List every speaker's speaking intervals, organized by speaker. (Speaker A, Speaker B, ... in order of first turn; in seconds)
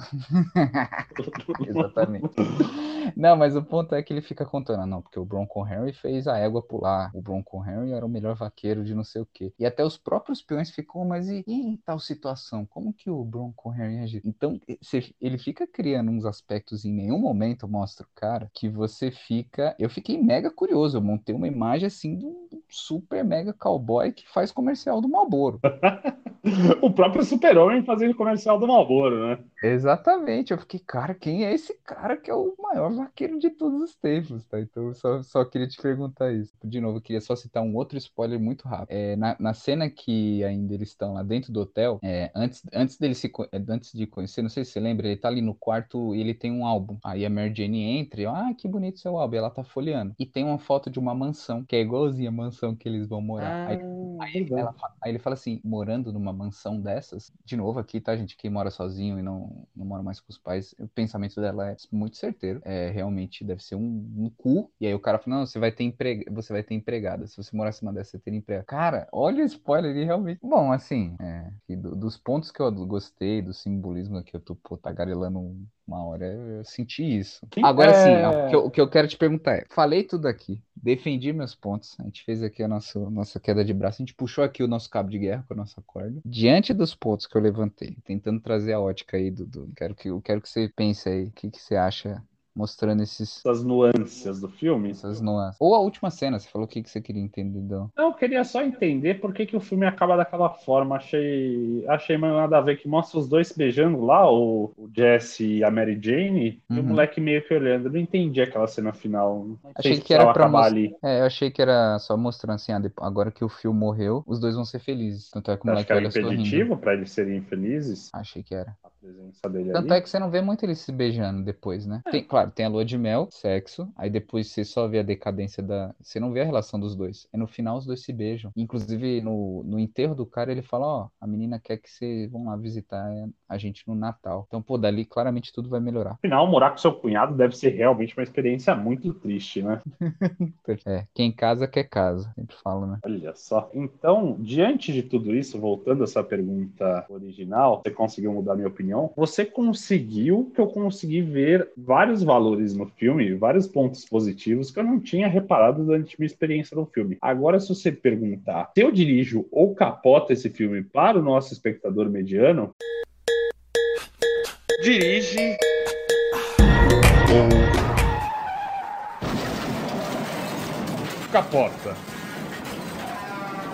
Speaker A: 0.1-25.6, 29.6-93.4, 94.9-97.9, 106.7-107.0, 109.8-116.7, 118.1-118.8, 119.7-136.2, 140.0-143.0
Speaker B: 1.1-2.6, 25.7-29.4, 53.4-54.7, 77.6-78.6, 93.4-95.2, 98.0-110.9, 115.7-118.1, 118.8-120.0, 136.2-139.8, 143.0-162.7, 164.8-165.6, 167.2-167.7, 171.3-172.0